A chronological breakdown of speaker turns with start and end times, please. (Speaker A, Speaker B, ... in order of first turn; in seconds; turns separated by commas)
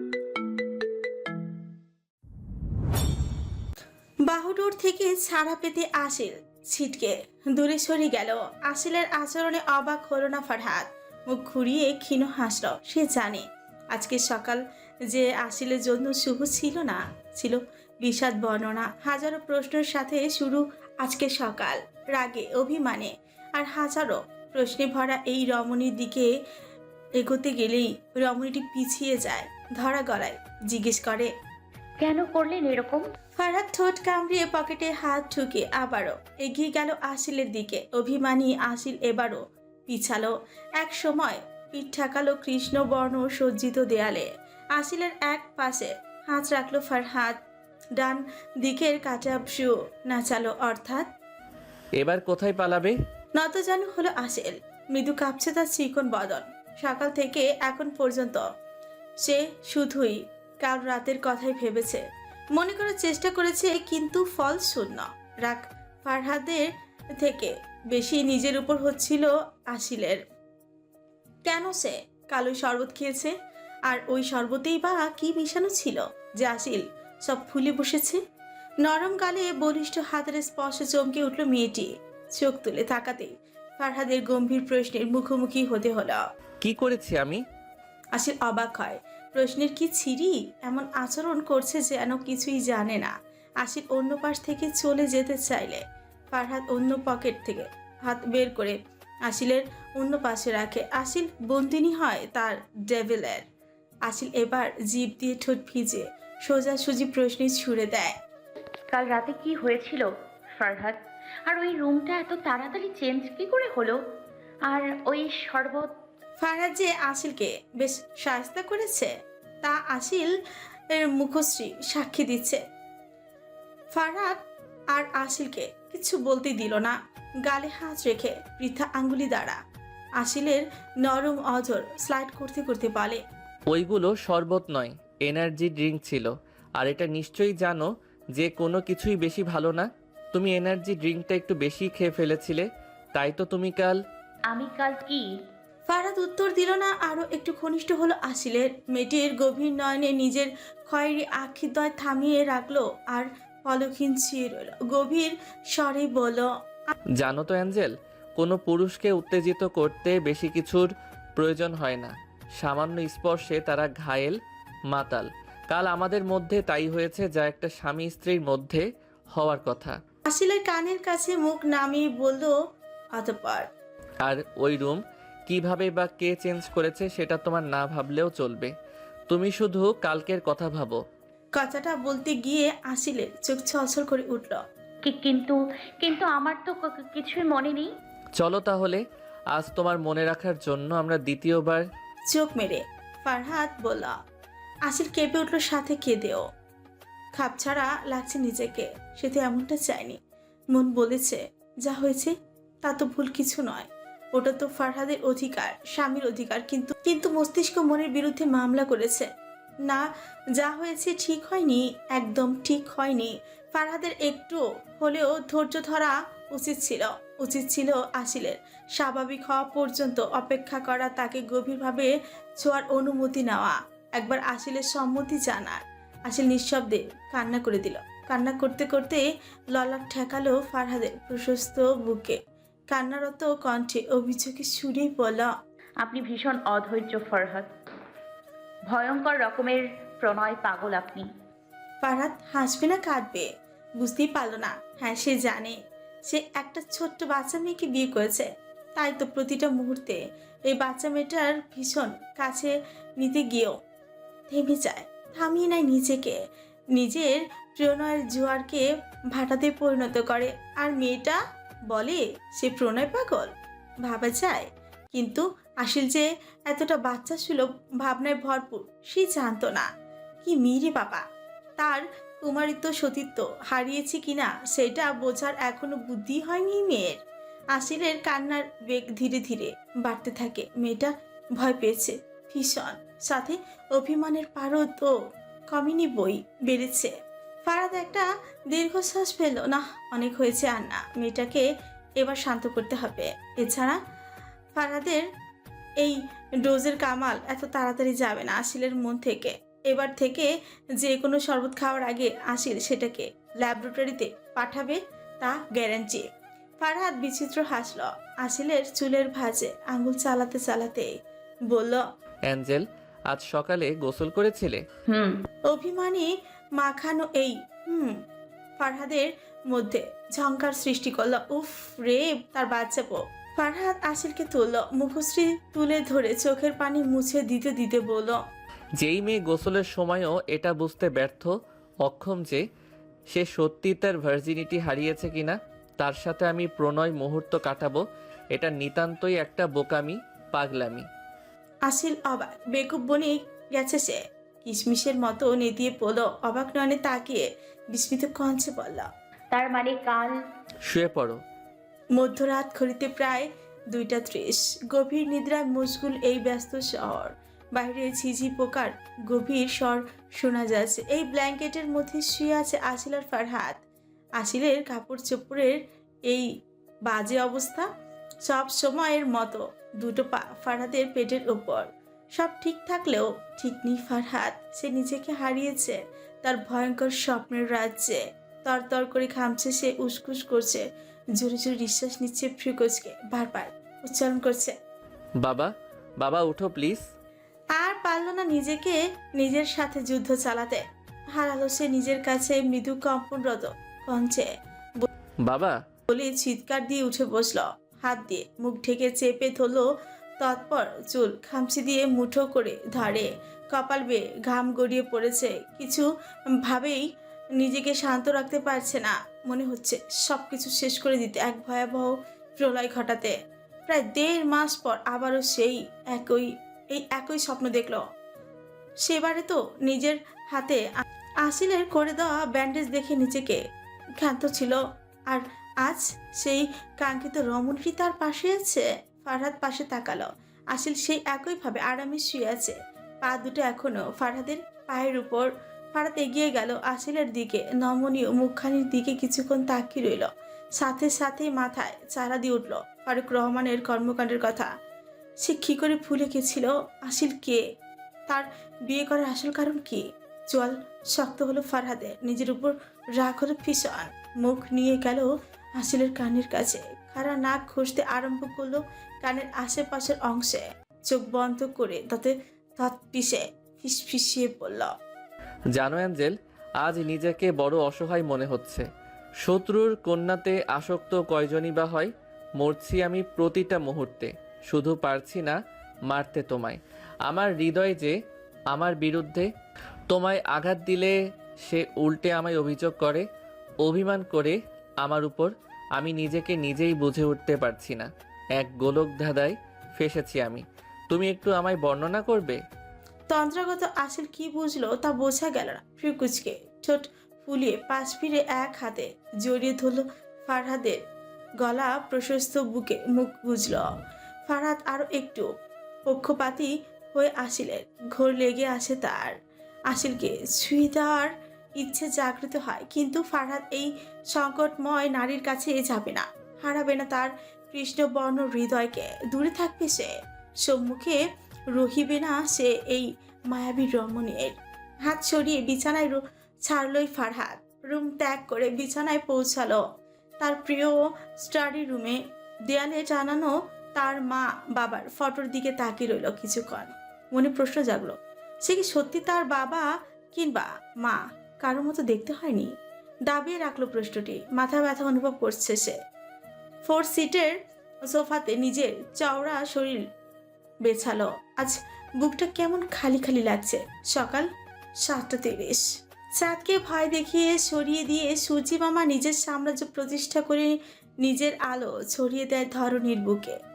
Speaker A: 4.2-26.3, Speaker A: 27.2-31.3, Speaker B: 32.0-33.0, Speaker A: 33.4-47.4, Speaker A: 48.0-51.1, Speaker C: 52.0-53.0, Speaker A: 53.4-58.4, Speaker A: 59.2-62.0, Speaker A: 62.5-66.6, Speaker A: 67.2-70.2, Speaker A: 71.5-73.3, Speaker A: 73.9-78.2, Speaker A: 78.8-86.2, Speaker C: 86.6-87.4, Speaker A: 88.1-98.8, Speaker A: 99.3-103.4, Speaker A: 104.1-108.2, Speaker B: 108.9-114.0, Speaker B: 114.7-115.9, Speaker A: 116.4-120.3, Speaker A: 120.9-122.6, Speaker A: 123.9-129.6, Speaker A: 130.2-133.2, Speaker C: 133.7-144.0, Speaker B: 144.5-145.3, Speaker A: 145.9-156.5, Speaker C: 157.2-164.4, Speaker C: 164.9-170.0, Speaker A: 170.3-172.5, Speaker A: 173.2-173.7, Speaker C: 174.2-178.7, Speaker C: 179.3-181.0, Speaker A: 181.6-184.6, Speaker B: 185.0-187.9, Speaker C: 188.4-189.0, Speaker C: 189.5-191.8, Speaker A: 192.3-194.2, Speaker A: 194.9-196.4, Speaker A: 197.3-200.2, Speaker A: 200.7-209.3, Speaker A: 210.6-229.2, Speaker A: 229.7-232.4, Speaker A: 232.9-235.5, Speaker B: 236.0-237.7, Speaker B: 238.9-241.3, Speaker A: 242.0-243.5, Speaker A: 244.0-253.8, Speaker A: 254.5-256.4, Speaker A: 256.9-263.5, Speaker A: 264.0-269.9, Speaker A: 270.4-271.2, Speaker A: 271.8-277.2, Speaker A: 277.7-285.1, Speaker A: 285.7-287.1, Speaker A: 287.7-291.6, Speaker A: 292.2-294.0, Speaker A: 294.8-295.2, Speaker A: 296.0-300.5, Speaker A: 301.0-306.3, Speaker A: 306.8-311.1, Speaker A: 311.7-312.0, Speaker C: 312.5-314.8, Speaker B: 315.1-315.4, Speaker A: 315.7-318.2, Speaker A: 318.8-328.4, Speaker C: 329.0-331.5, Speaker C: 332.0-332.6, Speaker C: 333.3-341.1, Speaker A: 341.9-349.1, Speaker B: 349.5-350.4, Speaker C: 350.8-351.4, Speaker A: 352.1-363.8, Speaker A: 364.4-366.5, Speaker A: 367.1-367.9, Speaker A: 368.4-380.8, Speaker A: 381.4-384.8, Speaker C: 385.4-387.0, Speaker A: 387.8-390.8, Speaker A: 391.4-395.1, Speaker C: 395.4-395.8, Speaker A: 396.1-399.9, Speaker A: 400.4-406.1, Speaker A: 406.6-407.0, Speaker A: 407.6-413.3, Speaker A: 413.9-418.0, Speaker A: 419.0-420.8, Speaker A: 421.4-423.6, Speaker A: 424.2-444.7, Speaker A: 445.4-447.6, Speaker A: 448.3-464.9, Speaker C: 465.7-468.9, Speaker C: 469.4-475.6, Speaker C: 476.1-478.1, Speaker C: 478.7-479.5, Speaker C: 480.1-483.2, Speaker C: 483.8-492.6, Speaker A: 493.3-501.0, Speaker A: 501.6-503.8, Speaker A: 504.5-505.5, Speaker A: 506.1-509.3, Speaker A: 509.9-521.2, Speaker A: 521.7-529.8, Speaker A: 530.4-542.7, Speaker A: 543.3-546.0, Speaker A: 546.8-550.0, Speaker A: 550.8-554.5, Speaker A: 555.0-563.6